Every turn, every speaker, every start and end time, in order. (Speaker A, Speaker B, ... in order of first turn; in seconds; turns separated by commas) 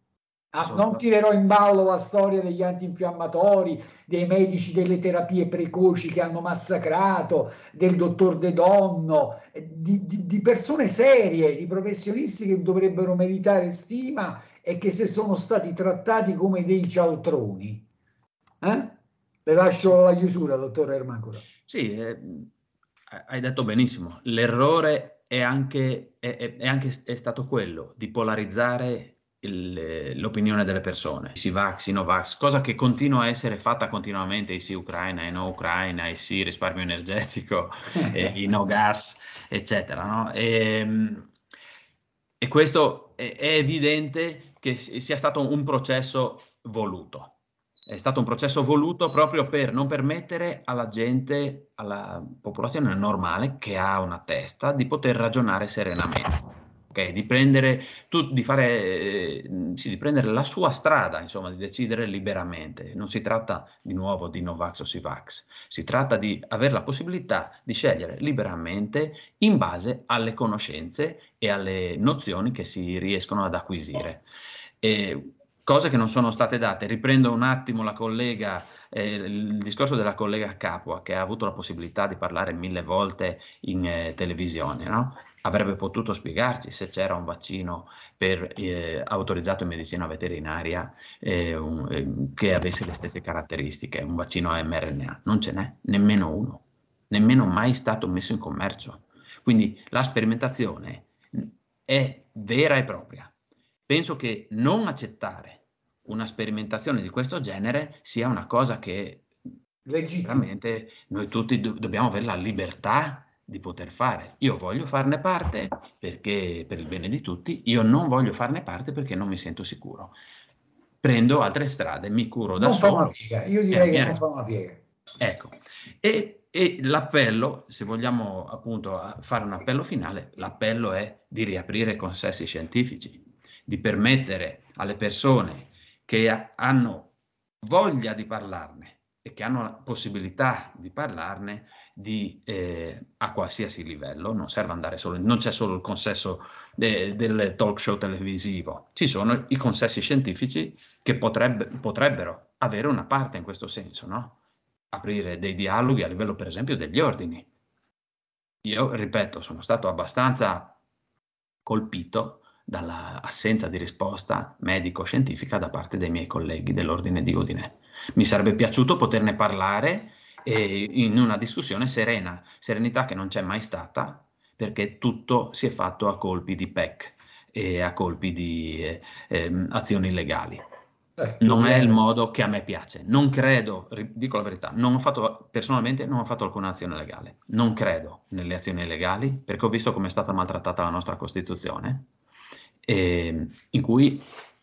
Speaker A: 0.5-17.9, Speaker B: 0.6-1.0, Speaker A: 18.6-21.4, Speaker B: 21.7-22.5, Speaker B: 23.1-41.3, Speaker A: 38.0-38.5, Speaker B: 42.4-47.3, Speaker B: 47.9-74.2, Speaker B: 74.8-103.3, Speaker B: 103.9-109.3, Speaker A: 109.9-110.5, Speaker B: 110.2-120.1, Speaker B: 121.0-123.2, Speaker A: 122.6-124.8, Speaker B: 123.7-124.2, Speaker B: 125.2-137.1, Speaker B: 137.6-154.4, Speaker B: 154.9-157.5, Speaker B: 158.6-160.8, Speaker B: 161.7-180.6, Speaker A: 181.2-182.0, Speaker B: 181.4-192.1, Speaker B: 192.9-194.3